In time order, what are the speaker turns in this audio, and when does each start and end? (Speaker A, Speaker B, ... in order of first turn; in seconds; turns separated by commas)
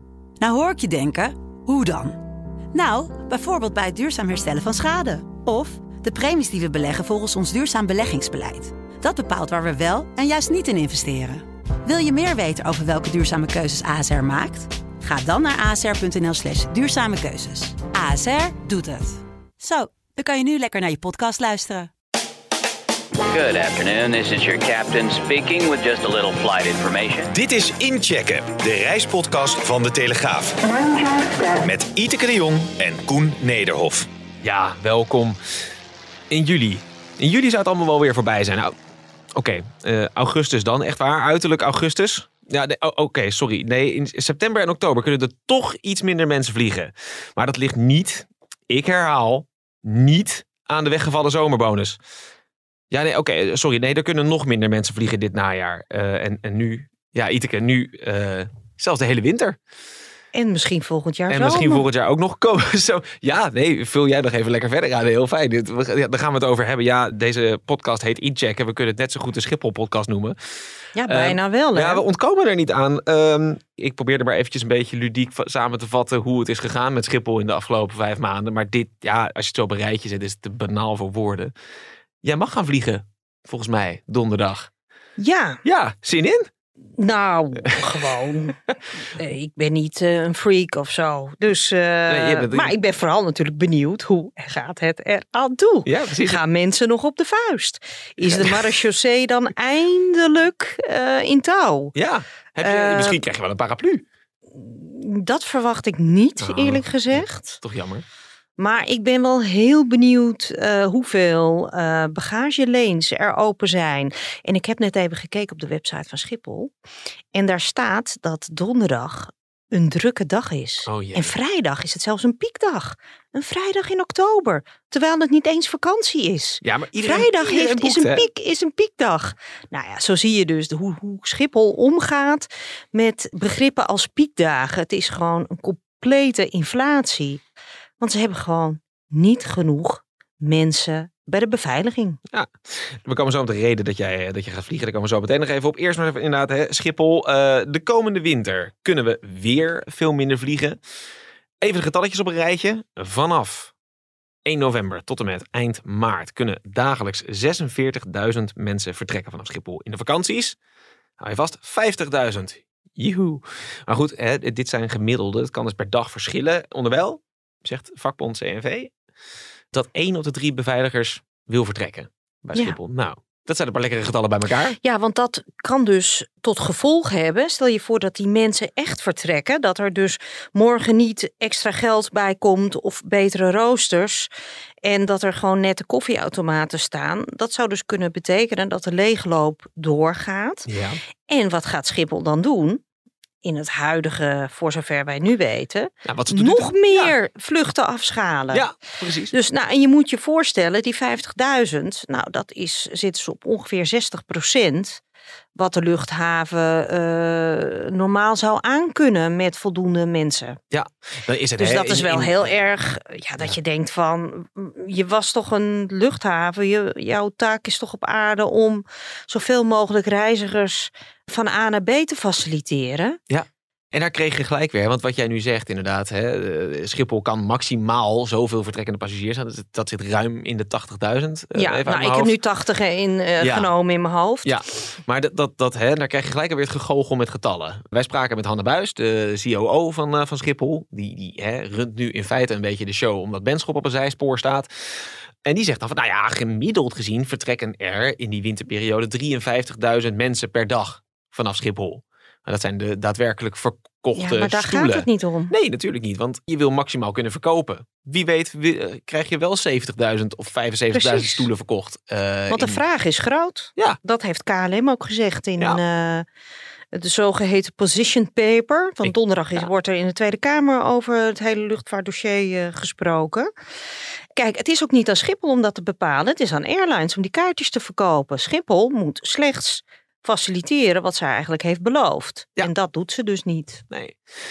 Speaker A: 0.4-2.2, Speaker A: 2.7-21.9, Speaker B: 23.3-27.3, Speaker C: 27.3-30.6, Speaker C: 31.5-34.1, Speaker D: 34.4-35.4, Speaker D: 36.3-38.7, Speaker D: 39.3-52.0, Speaker D: 52.9-59.6, Speaker E: 60.3-61.8, Speaker D: 61.3-70.3, Speaker E: 71.0-72.0, Speaker D: 71.1-81.5, Speaker D: 82.2-84.7, Speaker E: 85.2-85.6, Speaker D: 85.6-86.5, Speaker E: 87.0-88.6, Speaker D: 87.6-87.9, Speaker E: 89.1-101.9, Speaker D: 92.1-92.7, Speaker D: 95.8-96.4, Speaker D: 98.2-98.7, Speaker D: 101.9-104.0, Speaker E: 102.6-103.2, Speaker E: 104.5-107.6, Speaker D: 106.4-108.0, Speaker E: 108.6-116.7, Speaker E: 117.3-137.4, Speaker D: 120.8-121.3, Speaker D: 126.6-128.2, Speaker E: 138.0-142.2, Speaker D: 142.3-150.8, Speaker D: 151.6-153.7, Speaker D: 154.4-160.6, Speaker D: 161.2-168.9, Speaker D: 169.7-174.8, Speaker E: 174.8-184.3, Speaker E: 184.8-190.7, Speaker D: 190.7-191.0, Speaker E: 191.3-192.8, Speaker E: 193.4-198.7, Speaker D: 196.0-197.1, Speaker D: 198.5-199.3, Speaker E: 199.3-205.0, Speaker E: 205.6-210.6, Speaker D: 210.7-212.5, Speaker E: 211.6-223.2, Speaker D: 223.3-232.3, Speaker E: 231.6-234.5, Speaker D: 233.4-233.7, Speaker D: 234.4-262.8, Speaker E: 254.2-255.5, Speaker E: 260.9-261.4, Speaker E: 262.5-266.2, Speaker E: 266.9-273.5, Speaker D: 269.0-269.6, Speaker E: 274.4-283.8, Speaker D: 283.9-284.2